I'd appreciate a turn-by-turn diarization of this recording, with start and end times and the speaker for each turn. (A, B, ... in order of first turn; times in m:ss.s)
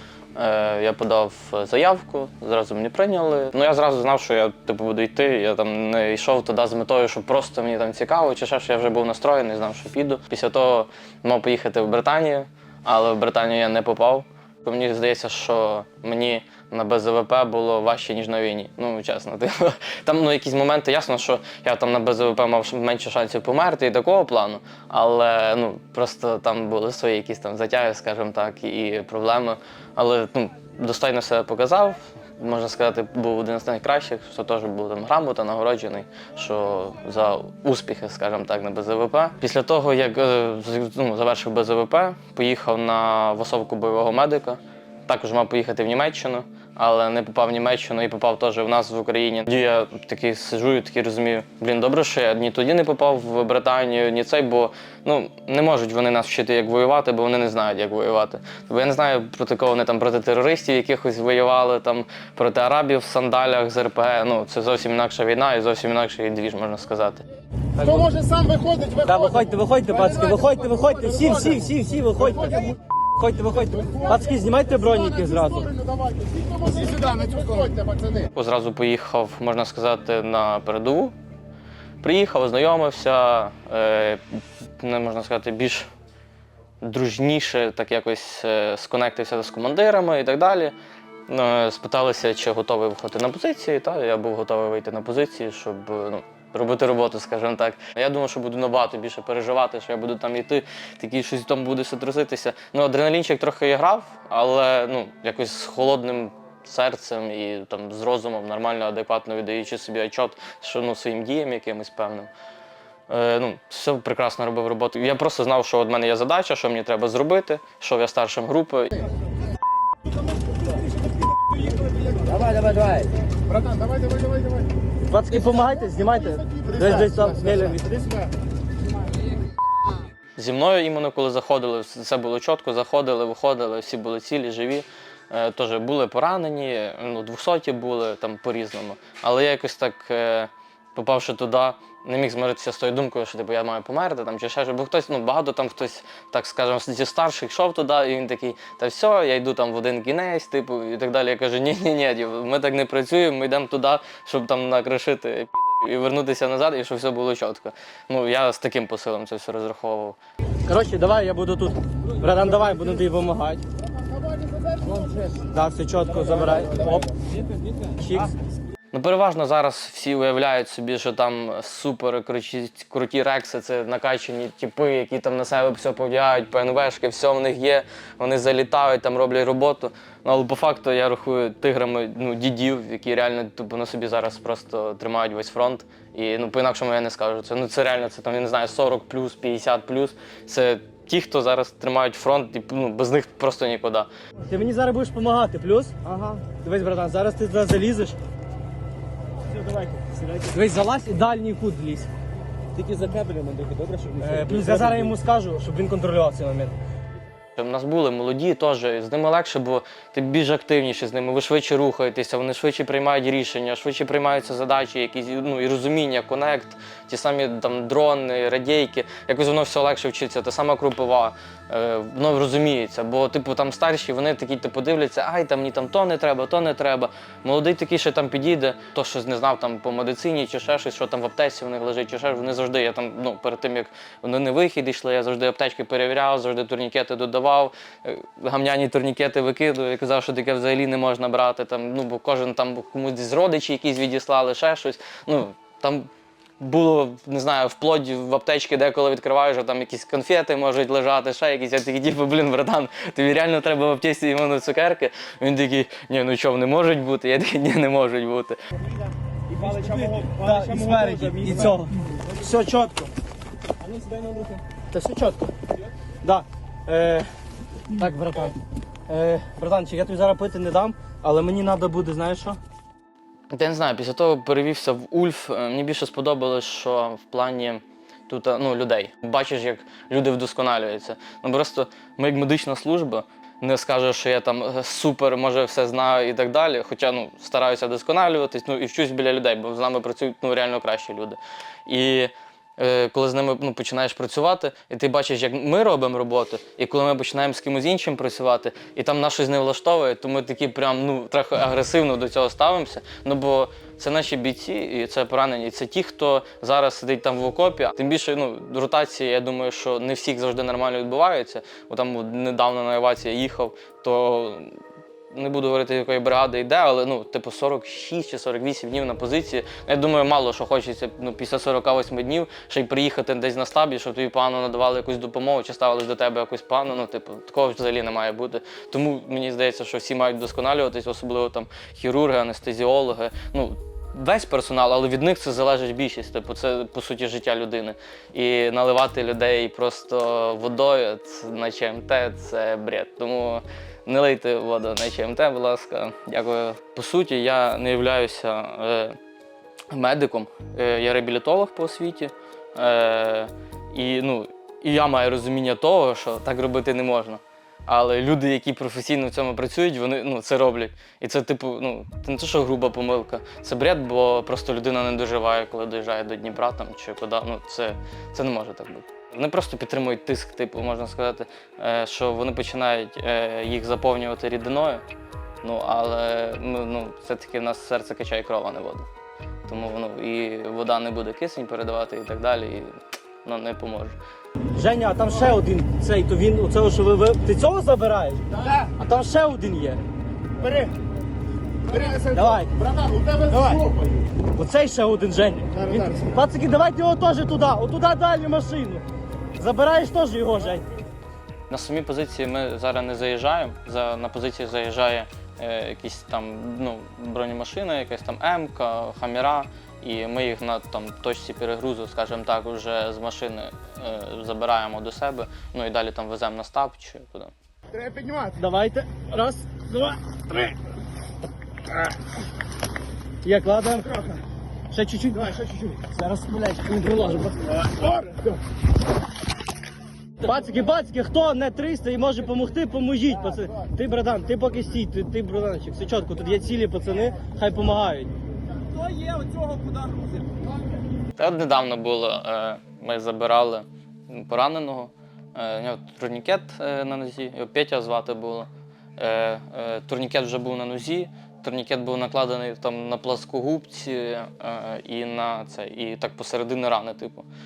0:00.3-1:07.2 A
1:07.8-1:08.1 B
1:08.1-1:09.0 C
1:09.0-1:15.7 B
1:15.9-1:18.1 C
1:18.3-1:21.2 A
1:22.0-1:25.9 A
1:26.8-1:30.8 A
1:31.3-1:52.3 A
1:53.1-1:59.1 A
2:02.3-2:03.0 D
2:05.1-2:08.1 B
2:10.4-2:40.2 A
2:40.7-2:43.6 B
2:45.4-2:47.1 B
2:48.0-2:48.3 B
2:48.9-3:14.1 A
3:14.5-3:18.2 B
3:19.8-3:20.4 D
3:20.5-3:22.1 B
3:22.7-3:25.1 D
3:24.2-3:26.7 B
3:27.6-4:06.1 A
4:06.6-4:18.6 A
4:19.5-4:22.3 D
4:19.6-4:23.1 B
4:23.8-4:24.6 D
4:24.9-4:25.5 B
4:26.2-4:27.3 B
4:27.9-4:28.6 B
4:29.1-4:32.6 B
4:33.5-5:14.8 A
5:15.3-5:49.2 A
5:49.9-6:15.0 A
6:15.6-6:19.1 A
6:19.6-6:24.2 A
6:24.7-6:30.0 B
6:32.2-6:32.7 B
6:33.0-6:34.0 C
6:33.5-6:33.8 B
6:34.5-6:39.0 B
6:39.6-6:40.9 B
6:41.7-6:57.5 A
6:58.6-7:00.2 B
7:03.4-7:08.2 B
7:10.4-7:18.3 B
7:19.0-7:20.4 D
7:21.4-7:37.5 A